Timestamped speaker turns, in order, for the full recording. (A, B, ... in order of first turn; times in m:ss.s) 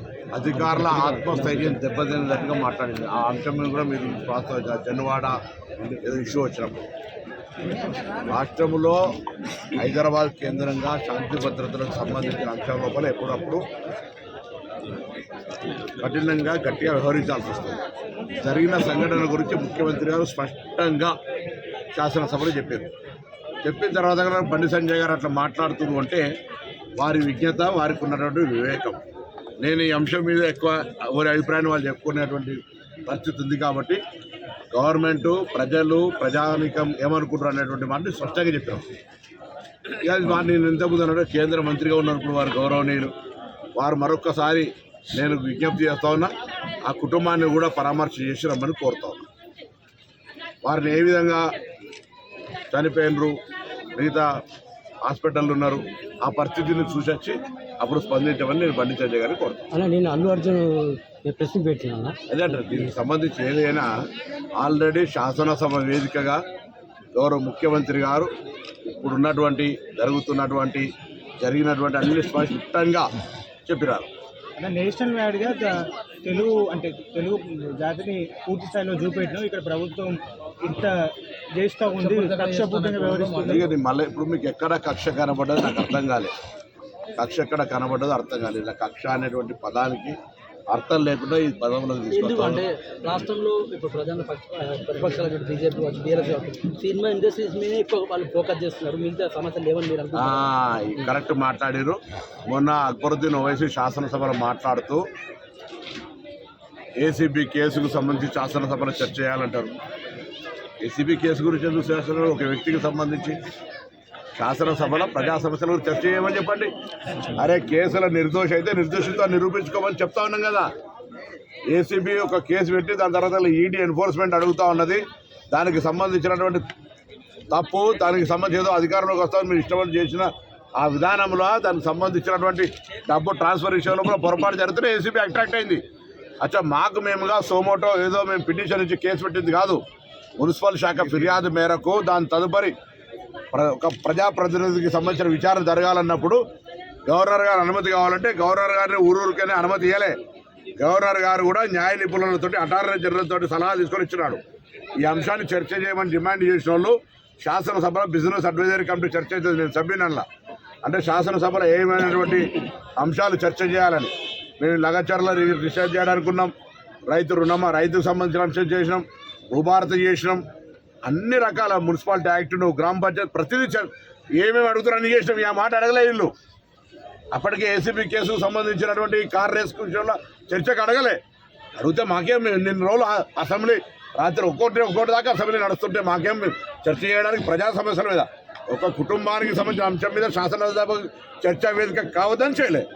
0:00.3-0:06.9 A
0:00.7-0:01.6 B
0:08.3-0:09.0 A
0:09.7-0:13.6 A
0:16.0-0:17.8 A
0:18.4-0:21.2 A
0:21.9-0:22.9 A
0:23.6-0:26.2 A
0:27.0-0:29.0 A
0:29.6-0:34.0 A
0:34.7-0:38.9 A
0:40.0-0:43.1 A
0:43.8-0:46.3 A
0:46.8-0:49.2 A
0:50.6-0:51.5 A
0:52.7-0:53.4 A
0:54.0-0:54.3 A
0:55.0-0:59.6 A
0:59.7-1:02.2 B
1:02.3-1:03.9 A
1:04.6-1:06.4 A
1:07.2-1:08.3 A
1:08.9-1:10.9 A
1:11.4-1:13.1 A
1:13.6-1:14.1 A
1:14.6-1:23.7 C
1:22.0-1:23.7 B
1:23.4-1:26.3 A
1:27.2-1:30.2 A
1:30.7-1:32.6 A
1:32.1-1:40.5 B
1:40.1-1:45.0 A
1:47.0-1:49.8 A
1:50.8-1:53.4 A
1:54.4-1:56.7 A
1:57.4-2:00.7 A
2:01.7-2:06.6 A
2:07.5-2:15.8 A
2:16.4-2:19.8 A
2:20.4-2:22.7 A
2:23.5-2:26.4 A
2:27.1-2:30.2 A
2:30.8-2:34.4 A
2:35.0-2:40.2 A
2:40.8-2:46.5 A
2:47.1-2:50.4 A
2:51.0-2:56.3 A
2:57.3-3:01.2 A
3:01.8-3:12.9 A